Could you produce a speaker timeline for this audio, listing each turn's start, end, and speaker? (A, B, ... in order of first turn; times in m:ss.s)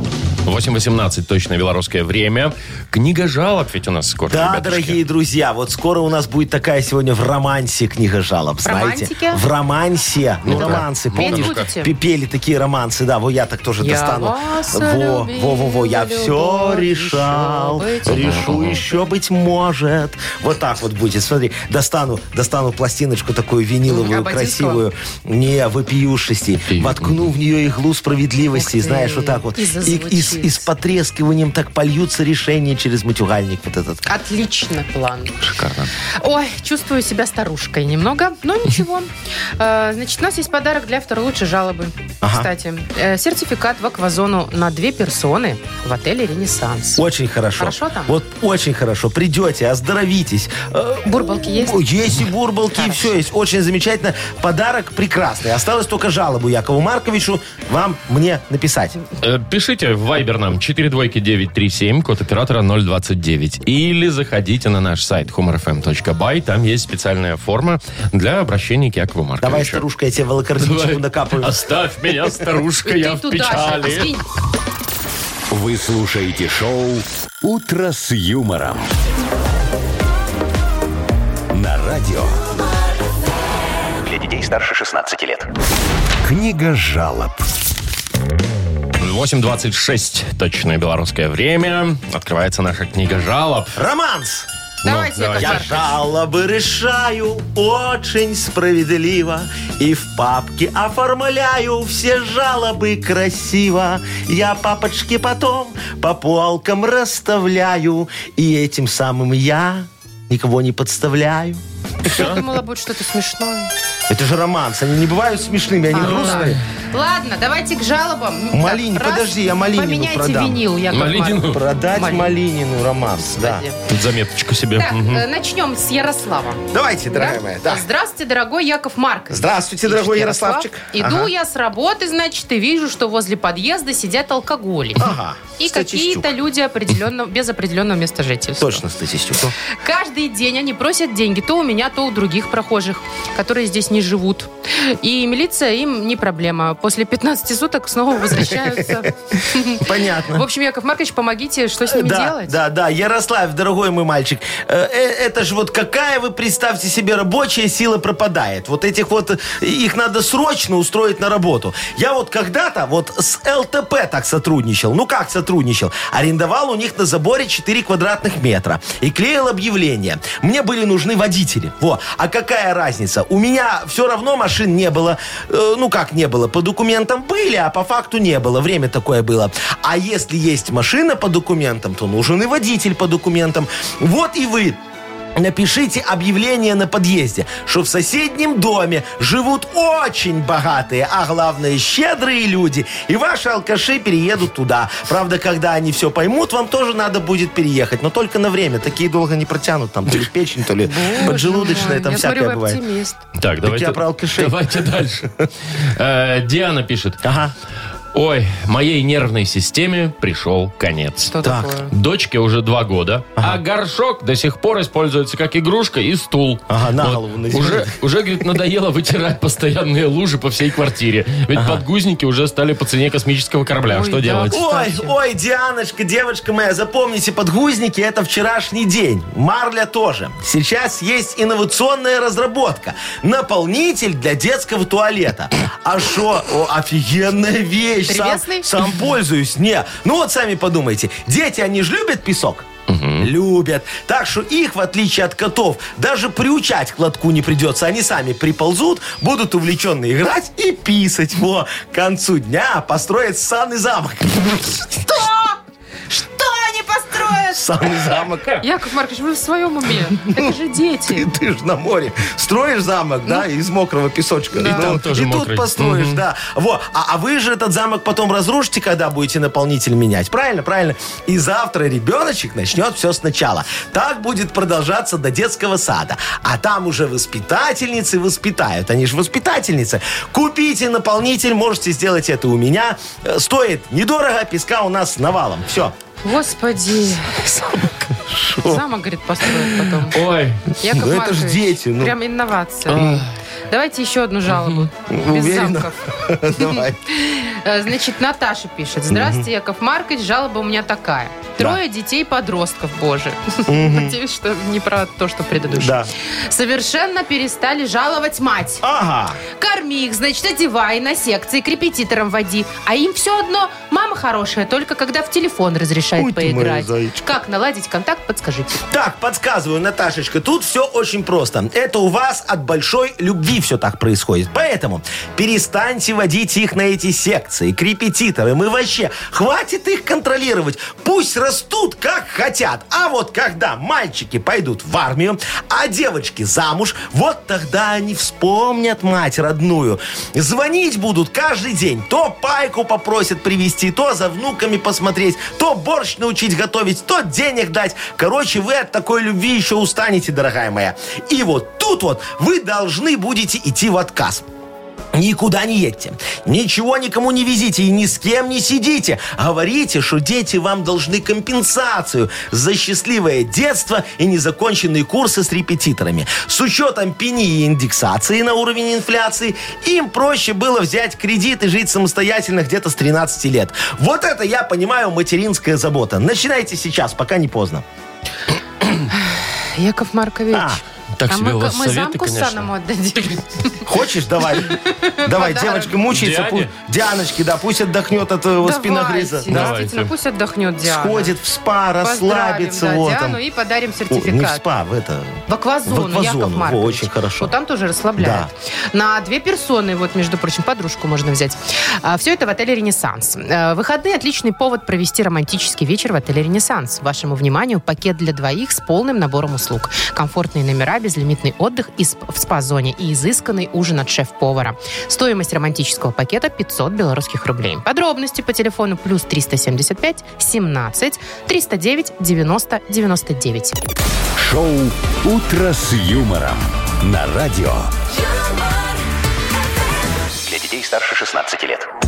0:00.4-0:05.0 A
0:04.3-0:34.0 B
0:08.6-0:09.4 C
0:10.4-0:11.7 A
0:10.5-0:11.9 C
0:13.8-0:19.0 C
0:18.1-0:18.8 A
0:23.9-0:24.8 C
0:26.7-0:27.3 A
0:28.5-0:30.7 C
0:34.0-0:35.4 C
0:35.4-0:35.9 A
0:36.2-0:47.0 C
0:42.2-0:42.5 B
0:47.0-0:59.0 B
0:47.6-0:48.2 C
0:51.0-0:51.8 C
0:52.7-0:53.2 C
0:59.2-1:09.8 A
1:09.4-1:11.6 B
1:10.6-1:14.1 A
1:12.8-1:14.2 C
1:15.5-1:18.9 D
1:21.5-1:22.4 D
1:24.0-1:25.5 E
1:26.2-1:27.4 D
1:29.0-1:33.8 A
1:33.7-1:34.5 B
1:34.8-1:35.8 C
1:34.8-1:35.9 A
1:35.4-1:51.6 B
1:52.0-1:53.7 C
1:52.1-1:52.4 A
1:54.1-1:56.6 B
1:55.9-2:02.3 C
1:56.0-1:56.6 A
1:58.5-2:00.6 B
2:00.9-2:01.6 A
2:01.4-2:03.6 B
2:03.3-2:03.8 C
2:03.9-2:05.2 A
2:04.8-2:18.8 C
2:06.7-2:07.8 B
2:09.3-2:11.3 B
2:15.0-2:16.3 B
2:18.6-2:19.6 B
2:19.6-2:32.6 C
2:29.7-2:30.4 B
2:31.8-3:04.8 B
3:05.4-3:22.8 B
3:20.8-3:23.2 C
3:23.4-3:27.2 A
3:23.6-3:24.6 B
3:27.2-3:27.5 B
3:28.1-3:44.6 A
3:31.3-3:31.9 C
3:31.4-3:31.7 B
3:33.4-3:33.6 B
3:36.7-3:38.0 B
3:41.5-3:41.8 B
3:43.9-3:45.1 C
3:44.5-4:02.7 B
3:58.1-3:58.7 C
4:02.9-4:03.3 A
4:03.2-4:14.9 B
4:15.0-4:15.6 C
4:16.1-4:17.6 C
4:17.5-4:18.6 B
4:18.6-4:21.3 C
4:21.1-4:45.9 B
4:24.5-4:25.0 C
4:24.6-4:26.2 A
4:46.2-4:50.2 C
4:48.2-4:48.8 B
4:50.1-4:50.6 A
4:50.8-4:53.1 C
4:50.8-4:52.2 B
4:52.9-4:53.3 A
4:52.9-4:53.2 B
4:53.7-5:08.8 C
4:54.5-4:54.8 A
4:55.1-4:57.0 B
4:59.1-4:59.4 B
5:03.7-5:04.2 B
5:05.7-5:06.1 B
5:08.8-5:09.4 B
5:09.6-5:18.8 C
5:16.2-5:17.2 B
5:18.9-5:54.4 B
5:55.1-6:17.8 B
6:19.1-6:23.8 C
6:20.5-6:20.8 B
6:21.2-6:22.7 A
6:23.8-6:29.8 B
6:24.6-6:25.9 C
6:26.1-6:26.7 A
6:28.6-6:31.3 C
6:29.5-6:30.1 A
6:30.8-6:33.4 B
6:32.0-6:34.6 C
6:34.1-6:37.5 B
6:35.5-7:03.8 C
6:38.2-6:38.5 B
7:04.4-7:07.9 D
7:10.4-7:11.9 E